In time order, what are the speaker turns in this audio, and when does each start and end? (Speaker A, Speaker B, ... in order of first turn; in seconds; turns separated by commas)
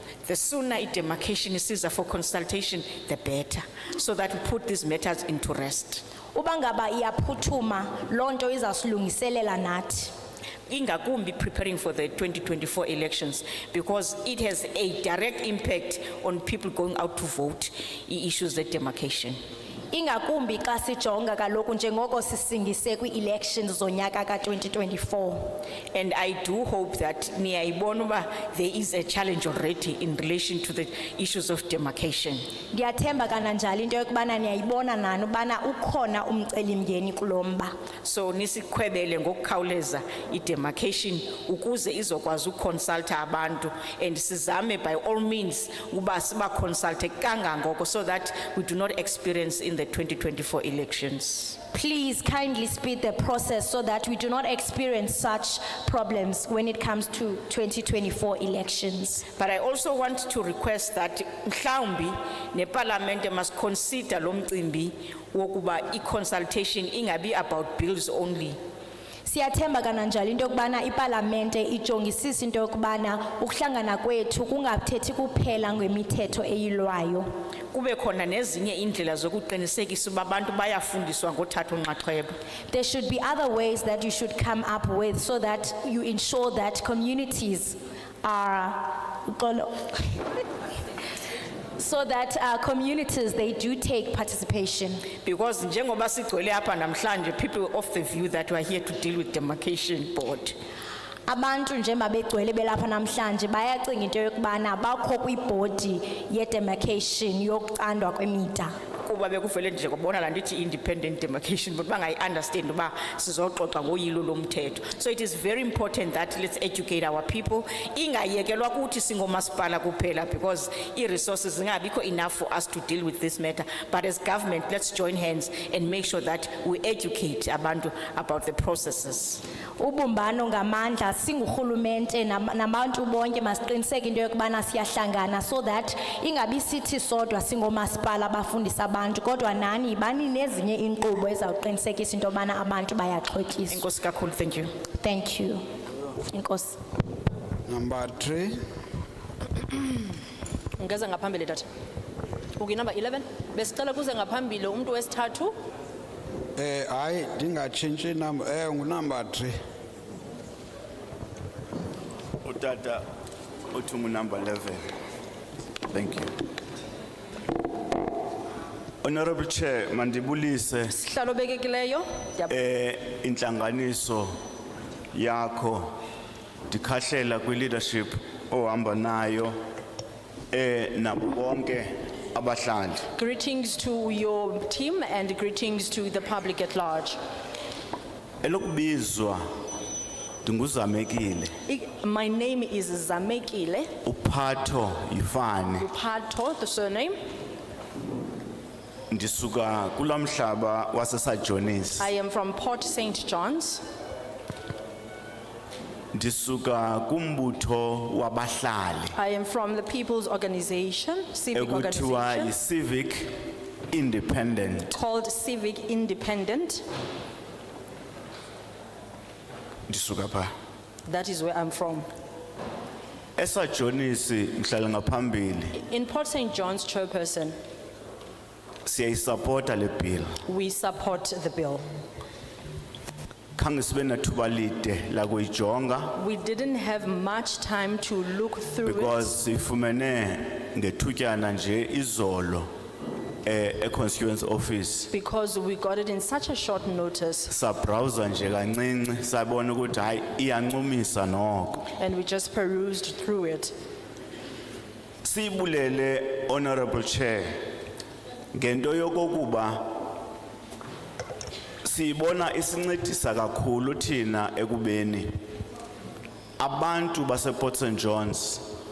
Speaker A: 0.2-6.0, Speaker B: 6.3-10.1, Speaker A: 10.7-19.4, Speaker B: 19.9-25.5, Speaker A: 25.9-32.4, Speaker B: 32.7-37.7, Speaker A: 38.0-51.6, Speaker B: 51.7-59.2, Speaker A: 59.4-68.6, Speaker B: 69.2-77.3, Speaker A: 77.7-82.3, Speaker B: 82.7-90.2, Speaker B: 91.8-95.0, Speaker A: 95.2-100.6, Speaker B: 101.3-108.7, Speaker A: 109.0-129.4, Speaker B: 129.8-143.8, Speaker A: 143.7-144.7, Speaker B: 145.0-145.6, Speaker B: 146.2-146.8, Speaker C: 147.7-148.6, Speaker D: 150.8-151.7, Speaker D: 152.6-155.5, Speaker C: 156.6-159.5, Speaker E: 162.4-163.0, Speaker E: 163.7-164.8, Speaker E: 165.9-166.3, Speaker E: 169.0-170.9, Speaker D: 170.9-172.5, Speaker E: 172.5-174.3, Speaker E: 175.1-175.9, Speaker E: 176.7-179.5, Speaker E: 180.5-183.1, Speaker D: 183.2-187.2, Speaker E: 188.4-189.4, Speaker E: 190.4-191.5, Speaker D: 191.7-193.9, Speaker E: 194.0-195.8, Speaker D: 195.8-197.2, Speaker E: 199.1-202.1, Speaker D: 202.0-203.8, Speaker E: 206.1-209.1, Speaker D: 209.1-212.5, Speaker E: 211.5-213.3, Speaker E: 213.9-214.9, Speaker D: 214.9-216.8, Speaker E: 219.9-220.5, Speaker D: 221.1-222.1, Speaker E: 223.4-225.7, Speaker D: 225.7-227.6, Speaker E: 228.8-230.3, Speaker D: 230.4-231.8, Speaker E: 233.6-236.1, Speaker D: 236.1-239.3, Speaker E: 238.8-242.7, Speaker E: 243.4-245.1, Speaker D: 245.1-247.5, Speaker E: 247.5-251.8, Speaker D: 251.9-253.7, Speaker E: 255.2-257.6, Speaker E: 258.5-259.9, Speaker E: 261.8-265.3, Speaker E: 266.6-268.6